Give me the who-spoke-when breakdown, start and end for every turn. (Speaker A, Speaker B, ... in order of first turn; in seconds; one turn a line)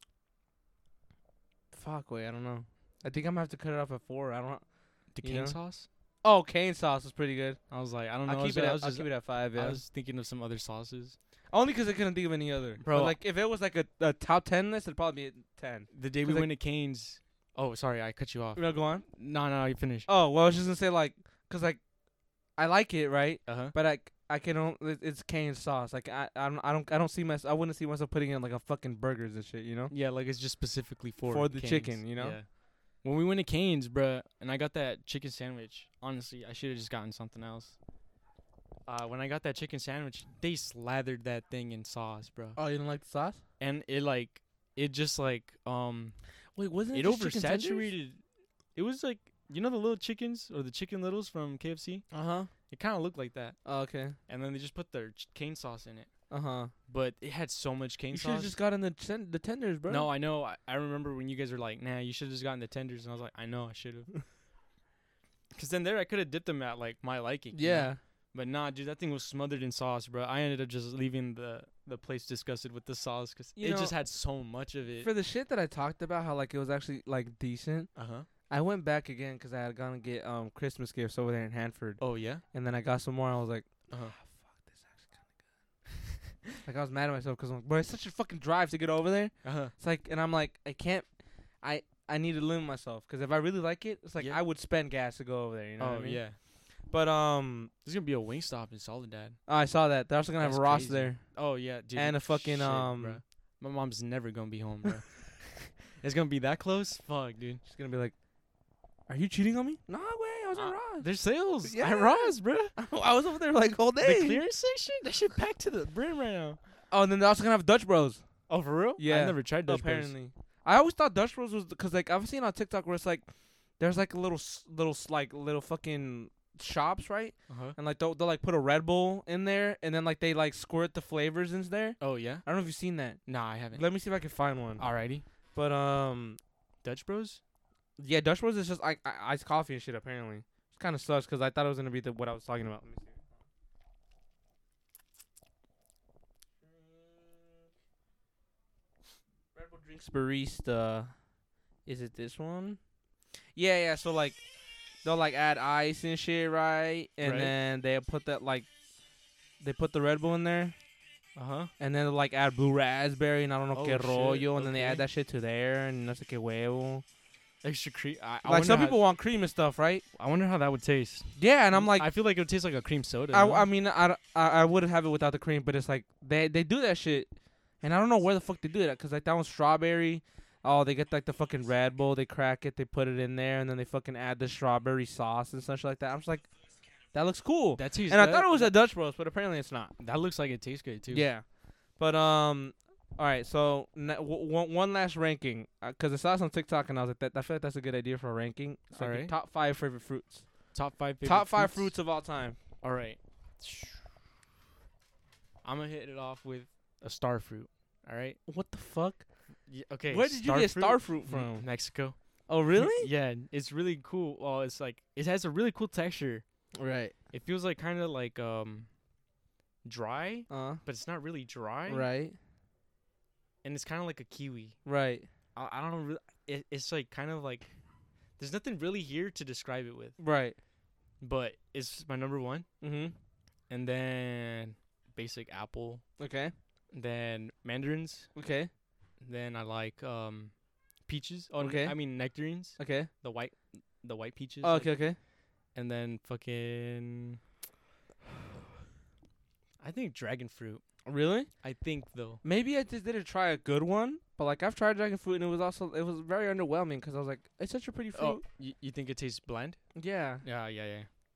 Speaker A: 1.7-4.6
Speaker B: 5.1-5.9
Speaker A: 5.2-5.6
Speaker A: 6.2-7.6
Speaker B: 7.7-11.2
Speaker A: 8.2-9.8
Speaker A: 11.5-16.5
Speaker B: 12.8-13.2
Speaker B: 15.9-20.1
Speaker A: 18.6-19.0
Speaker A: 20.1-21.8
Speaker A: 22.6-29.9
Speaker B: 23.4-23.7
Speaker B: 29.9-37.8
Speaker A: 31.2-32.4
Speaker B: 38.9-42.6
Speaker A: 42.5-43.4
Speaker B: 43.6-46.1
Speaker A: 46.5-47.9
Speaker B: 46.9-48.2
Speaker B: 48.7-52.1
Speaker A: 52.1-52.5
Speaker B: 52.7-53.6
Speaker A: 53.6-54.2
Speaker B: 54.3-56.1
Speaker A: 56.3-56.7
Speaker B: 56.9-58.5
Speaker A: 58.1-60.1
Speaker B: 59.9-64.1
Speaker B: 65.5-75.1
Speaker A: 67.5-68.0
Speaker A: 73.6-74.0
Speaker A: 75.0-77.9
Speaker B: 77.9-78.3
Speaker A: 78.5-85.1
Speaker B: 82.0-82.4
Speaker B: 83.9-84.1
Speaker A: 86.6-91.0
Speaker B: 89.4-89.7
Speaker A: 91.6-97.7
Speaker B: 95.8-96.4
Speaker B: 97.8-99.4
Speaker A: 99.5-101.2
Speaker B: 100.4-107.6
Speaker A: 101.9-103.2
Speaker A: 107.6-108.1
Speaker A: 109.1-111.1
Speaker B: 110.5-112.7
Speaker A: 111.6-114.4
Speaker B: 114.0-116.6
Speaker A: 116.9-118.2
Speaker B: 118.5-120.1
Speaker A: 119.0-123.2
Speaker A: 123.8-133.2
Speaker B: 127.5-127.8
Speaker B: 132.0-132.4
Speaker B: 133.2-133.8
Speaker A: 133.7-134.8
Speaker B: 134.8-135.2
Speaker A: 135.5-136.4
Speaker B: 136.8-137.4
Speaker A: 138.0-143.2
Speaker A: 146.6-147.7
Speaker A: 149.5-151.1
Speaker A: 151.8-152.8
Speaker A: 153.5-154.4
Speaker A: 155.0-158.7
Speaker B: 157.2-157.5
Speaker A: 159.6-160.7
Speaker B: 161.3-161.7
Speaker A: 161.8-167.0
Speaker B: 163.7-165.0
Speaker B: 167.6-169.0
Speaker A: 168.4-170.0
Speaker B: 170.1-173.7
Speaker A: 171.4-172.1
Speaker A: 173.3-177.3
Speaker A: 177.8-186.5
Speaker A: 187.1-189.9
Speaker B: 187.8-188.8
Speaker B: 190.0-191.2
Speaker A: 191.1-191.4
Speaker A: 191.9-200.4
Speaker B: 198.9-199.3
Speaker B: 200.7-202.0
Speaker A: 201.2-202.6
Speaker B: 202.8-204.1
Speaker B: 205.6-208.4
Speaker A: 208.5-209.2
Speaker B: 209.7-216.4
Speaker A: 210.1-211.7
Speaker A: 212.5-213.1
Speaker A: 216.8-217.1
Speaker B: 217.3-218.9
Speaker B: 219.8-222.1
Speaker A: 220.5-220.8
Speaker A: 221.9-222.3
Speaker B: 223.6-224.8
Speaker A: 224.8-225.3
Speaker B: 225.5-227.7
Speaker B: 228.4-230.2
Speaker A: 230.2-230.6
Speaker B: 231.2-232.7
Speaker A: 232.8-233.1
Speaker B: 233.7-236.0
Speaker A: 236.2-236.5
Speaker B: 236.9-238.3
Speaker A: 238.3-238.7
Speaker B: 239.2-245.0
Speaker A: 241.6-242.0
Speaker A: 242.8-243.1
Speaker A: 244.6-245.2
Speaker B: 245.7-247.4
Speaker B: 249.8-250.8
Speaker A: 251.1-251.5
Speaker B: 251.6-252.4
Speaker A: 252.4-258.4
Speaker B: 258.1-259.8
Speaker A: 259.9-260.4
Speaker B: 260.4-261.1